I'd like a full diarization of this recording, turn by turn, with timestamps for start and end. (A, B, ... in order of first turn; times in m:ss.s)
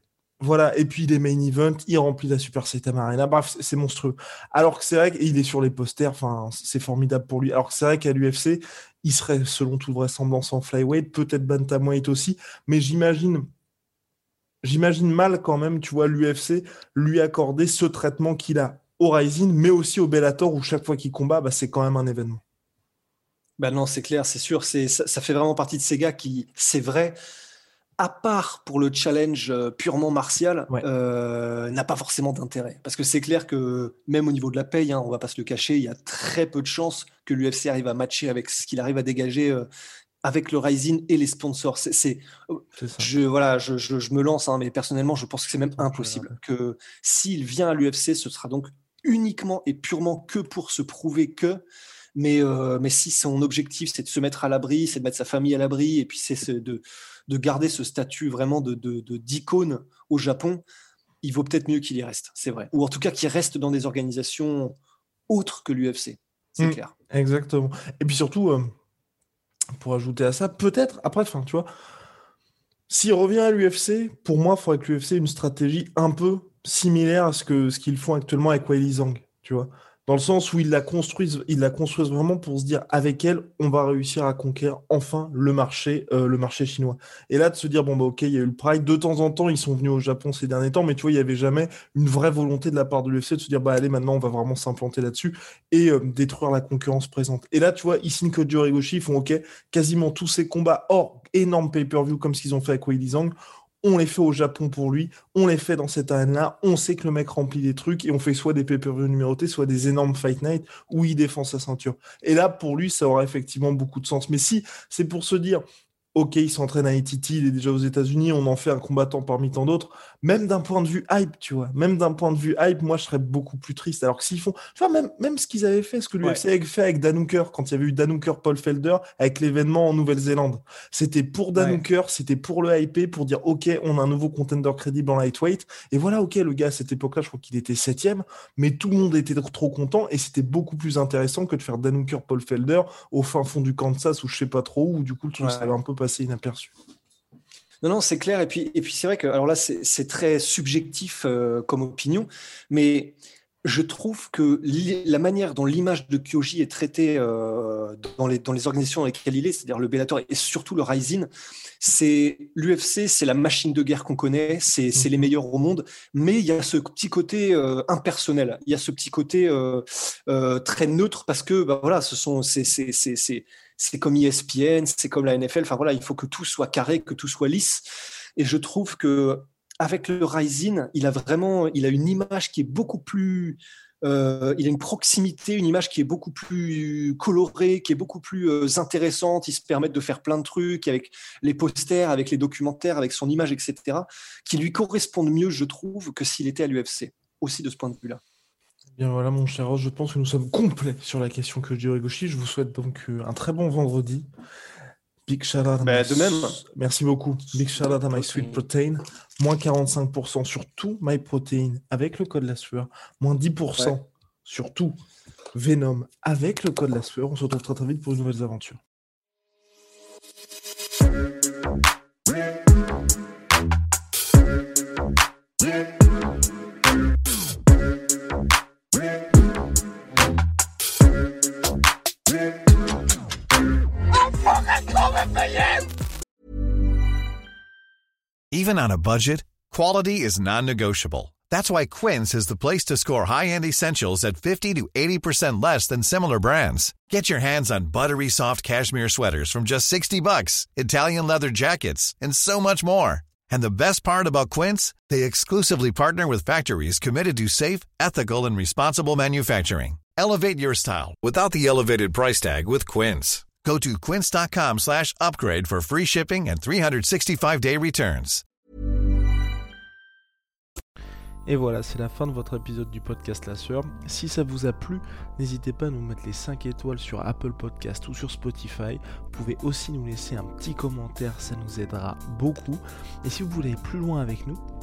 0:00.4-0:13.4 A
0:14.6-0:22.4 A
0:23.6-0:27.1 B
0:28.0-0:39.6 B
0:40.2-0:51.6 B
0:42.8-0:43.1 A
0:45.8-0:46.3 A
0:52.1-1:00.6 B
1:01.2-1:04.7 B
1:05.3-1:06.9 B
1:06.6-1:08.7 A
1:09.8-1:11.7 A
1:12.9-1:55.6 A
1:56.1-2:26.7 A
2:11.6-2:11.8 B
2:25.4-2:25.7 B
2:27.8-2:41.3 B
2:41.8-2:57.8 B
2:58.4-3:18.2 B
3:19.0-3:24.3 A
3:25.3-3:35.0 A
3:25.8-3:26.6 B
3:27.9-3:28.6 B
3:35.5-3:38.8 A
3:58.5-4:28.4 C
4:31.4-4:44.6 A